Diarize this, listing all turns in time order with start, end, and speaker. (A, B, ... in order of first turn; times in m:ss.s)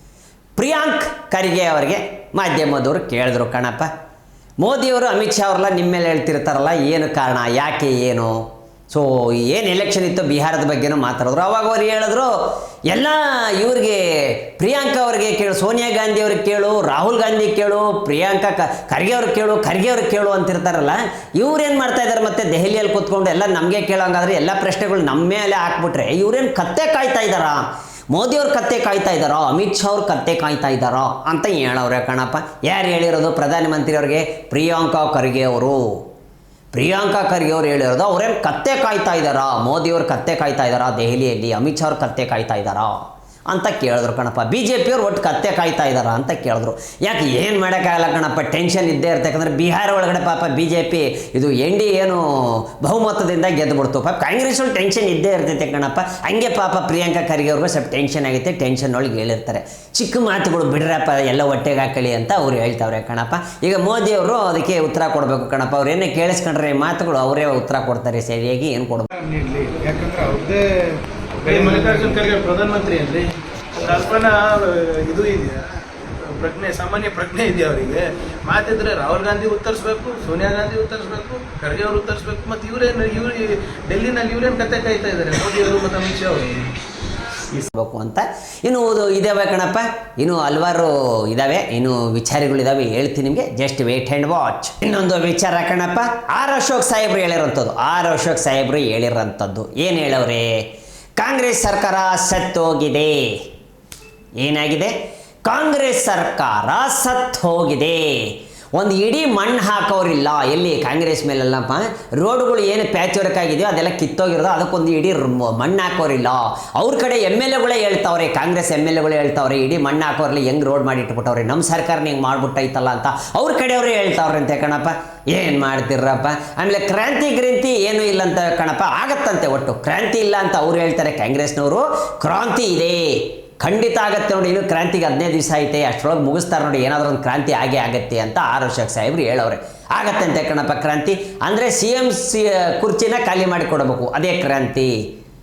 0:00.6-0:03.9 A
0:04.6-0:12.3 A
0:12.9-0:36.0 A
0:36.7-1:09.1 A
1:09.2-1:10.6 B
1:09.6-1:10.4 C
1:11.4-1:15.6 C
1:11.5-1:12.1 B
1:16.2-1:26.6 C
1:27.5-1:40.6 A
1:41.2-1:43.4 A
1:44.4-2:25.0 A